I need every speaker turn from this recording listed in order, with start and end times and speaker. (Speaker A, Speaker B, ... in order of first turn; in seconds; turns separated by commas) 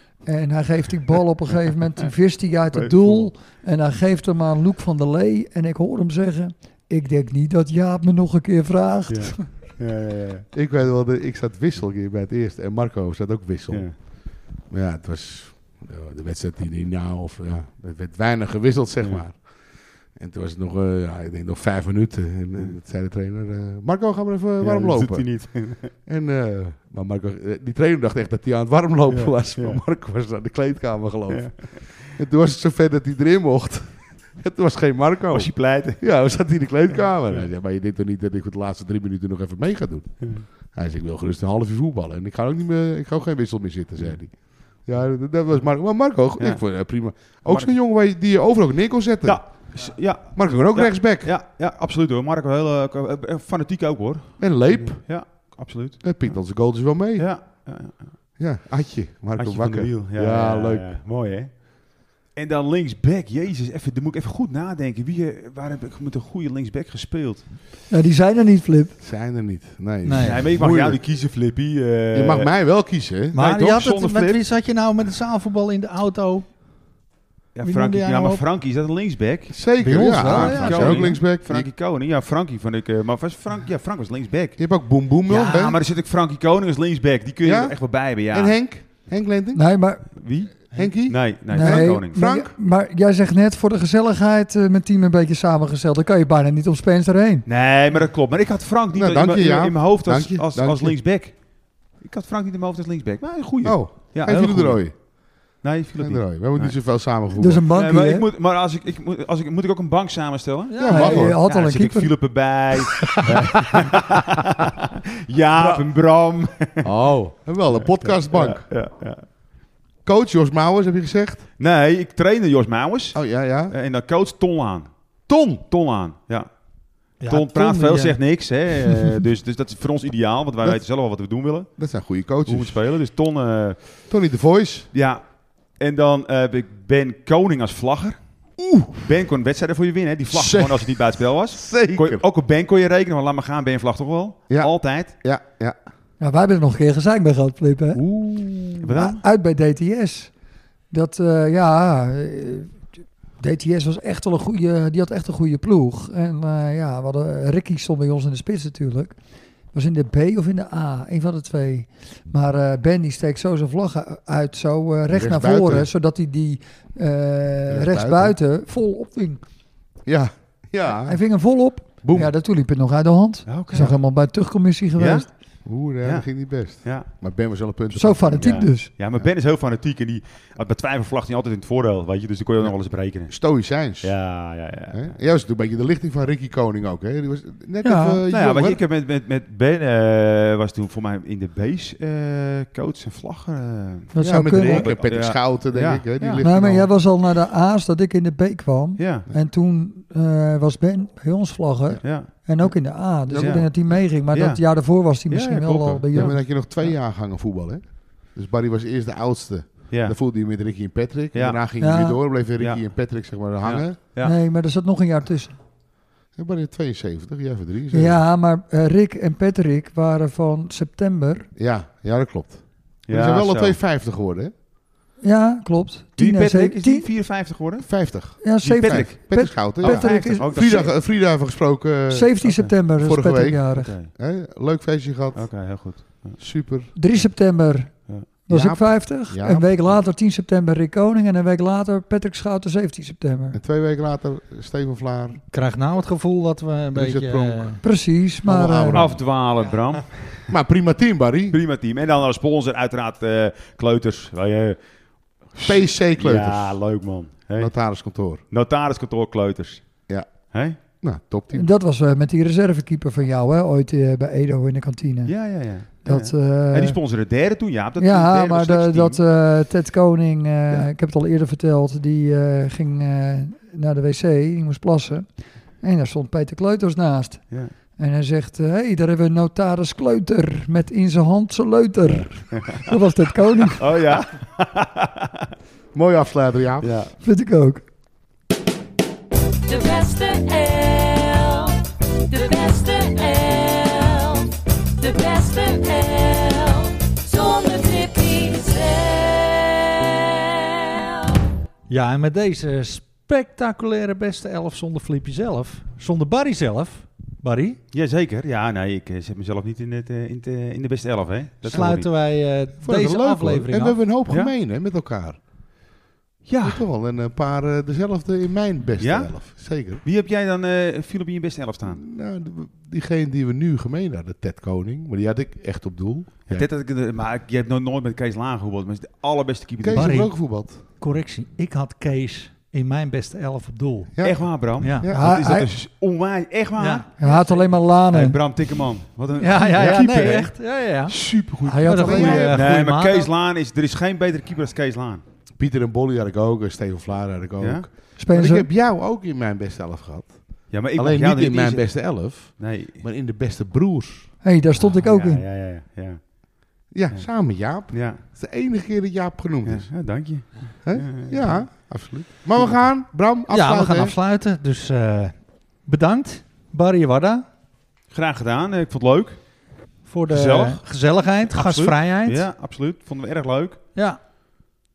Speaker A: 0.2-9.4, Speaker B: 2.7-3.3, Speaker B: 9.1-10.5, Speaker C: 10.5-14.1, Speaker C: 14.6-19.6, Speaker C: 20.1-25.3, Speaker B: 24.6-25.9, Speaker C: 26.1-51.3, Speaker B: 29.1-29.8, Speaker B: 31.3-32.0, Speaker B: 35.3-36.0, Speaker B: 36.9-37.5, Speaker B: 40.2-40.5, Speaker B: 46.4-47.7, Speaker B: 49.2-58.2, Speaker C: 54.4-55.2, Speaker C: 56.0-57.4, Speaker C: 58.4-60.9, Speaker B: 59.4-67.5, Speaker A: 67.9-69.0, Speaker C: 69.0-71.0, Speaker D: 70.0-70.4, Speaker B: 70.2-72.5, Speaker C: 72.1-73.4, Speaker B: 73.3-74.4, Speaker D: 73.3-76.6, Speaker B: 77.5-88.6, Speaker D: 77.6-78.5, Speaker C: 79.5-81.7, Speaker D: 79.8-81.2, Speaker C: 84.6-85.8, Speaker C: 87.4-89.7, Speaker A: 89.5-90.2, Speaker B: 90.2-92.2, Speaker C: 90.7-92.5, Speaker A: 91.5-97.5, Speaker B: 97.5-101.4, Speaker C: 98.9-101.0, Speaker B: 102.0-104.9, Speaker C: 103.6-105.0, Speaker B: 105.6-106.8, Speaker C: 106.0-107.7, Speaker A: 107.4-108.2, Speaker B: 107.7-116.9, Speaker D: 110.7-111.2, Speaker C: 110.8-111.4, Speaker A: 110.8-112.1, Speaker C: 113.2-113.9, Speaker C: 115.5-115.9, Speaker C: 116.8-118.7, Speaker B: 117.8-119.3, Speaker C: 120.0-121.5, Speaker B: 121.6-126.5, Speaker C: 123.1-123.8, Speaker B: 127.2-131.7, Speaker D: 127.2-128.2, Speaker C: 131.8-132.8, Speaker B: 132.4-134.0, Speaker C: 134.1-134.9, Speaker B: 134.9-138.2, Speaker C: 138.6-139.0, Speaker B: 139.0-145.1, Speaker C: 140.3-142.2, Speaker C: 144.5-145.8, Speaker A: 146.2-148.0, Speaker C: 147.9-149.2, Speaker B: 148.8-149.2, Speaker A: 149.0-150.3, Speaker A: 150.9-152.9, Speaker A: 153.4-159.2, Speaker A: 159.7-169.4, Speaker C: 165.1-165.9, Speaker C: 167.7-168.4, Speaker C: 170.1-171.2, Speaker A: 171.1-175.3, Speaker C: 172.0-172.3, Speaker B: 173.5-174.0, Speaker B: 175.0-175.3, Speaker C: 175.7-179.3, Speaker B: 176.0-177.1, Speaker A: 177.9-178.9, Speaker B: 178.4-185.2, Speaker C: 182.6-188.8, Speaker A: 187.8-188.2, Speaker B: 188.3-196.4, Speaker A: 194.1-194.9, Speaker C: 194.2-196.9, Speaker A: 196.4-206.6, Speaker B: 199.0-199.3, Speaker B: 202.0-202.3, Speaker C: 203.3-204.0, Speaker B: 203.3-203.7, Speaker B: 204.3-206.4, Speaker C: 206.1-214.0, Speaker B: 209.9-210.2, Speaker B: 211.3-211.6, Speaker A: 211.8-212.2, Speaker B: 212.6-212.8, Speaker B: 213.6-214.4, Speaker A: 214.2-215.6, Speaker C: 216.4-218.2, Speaker A: 217.9-221.5, Speaker C: 221.6-224.5, Speaker B: 223.1-223.8, Speaker A: 225.2-227.1, Speaker B: 226.2-230.9, Speaker C: 227.8-235.5, Speaker A: 228.4-230.9, Speaker A: 232.1-233.9, Speaker B: 232.4-232.7, Speaker B: 233.6-234.1, Speaker B: 235.3-236.4, Speaker C: 236.4-236.9, Speaker A: 237.0-243.6, Speaker C: 238.5-240.0, Speaker C: 243.5-245.4, Speaker D: 245.5-247.8, Speaker C: 246.9-247.8, Speaker A: 247.8-249.0, Speaker C: 248.4-249.3, Speaker B: 248.9-250.5, Speaker C: 250.5-251.6, Speaker B: 251.5-254.8, Speaker B: 255.5-257.8, Speaker C: 255.6-256.8, Speaker C: 257.6-258.4, Speaker B: 258.5-259.9, Speaker C: 260.1-261.7, Speaker B: 260.5-260.8, Speaker A: 261.5-265.3, Speaker B: 265.2-269.2, Speaker A: 266.1-267.0, Speaker A: 268.0-283.9, Speaker B: 282.1-282.9, Speaker B: 283.8-285.3, Speaker C: 285.9-286.9, Speaker B: 286.8-287.1, Speaker A: 287.2-287.9, Speaker E: 289.7-301.4, Speaker D: 301.9-307.8, Speaker B: 307.9-312.1, Speaker D: 311.7-314.0, Speaker C: 311.7-312.3, Speaker C: 312.8-315.4, Speaker B: 314.3-314.5, Speaker B: 316.5-316.9, Speaker C: 316.6-320.0, Speaker B: 319.0-322.1, Speaker C: 321.9-326.7, Speaker B: 326.5-330.2, Speaker C: 329.8-330.8, Speaker D: 329.9-334.1, Speaker C: 334.1-335.4, Speaker B: 334.2-345.2, Speaker D: 334.8-335.1, Speaker A: 335.1-335.7, Speaker D: 336.8-337.3, Speaker A: 337.2-338.4, Speaker D: 339.4-341.2, Speaker A: 341.6-342.6, Speaker D: 341.9-343.3, Speaker C: 342.0-342.8, Speaker C: 345.6-354.3, Speaker B: 347.6-347.9, Speaker A: 348.2-348.7, Speaker B: 350.7-353.0, Speaker A: 354.4-355.4, Speaker B: 354.8-356.2, Speaker C: 356.9-359.9, Speaker B: 357.9-358.2, Speaker B: 359.6-361.7, Speaker C: 360.8-364.1, Speaker D: 363.5-367.5, Speaker B: 368.1-369.5, Speaker D: 370.1-372.5, Speaker B: 370.3-370.8, Speaker B: 371.5-373.8, Speaker D: 373.9-374.2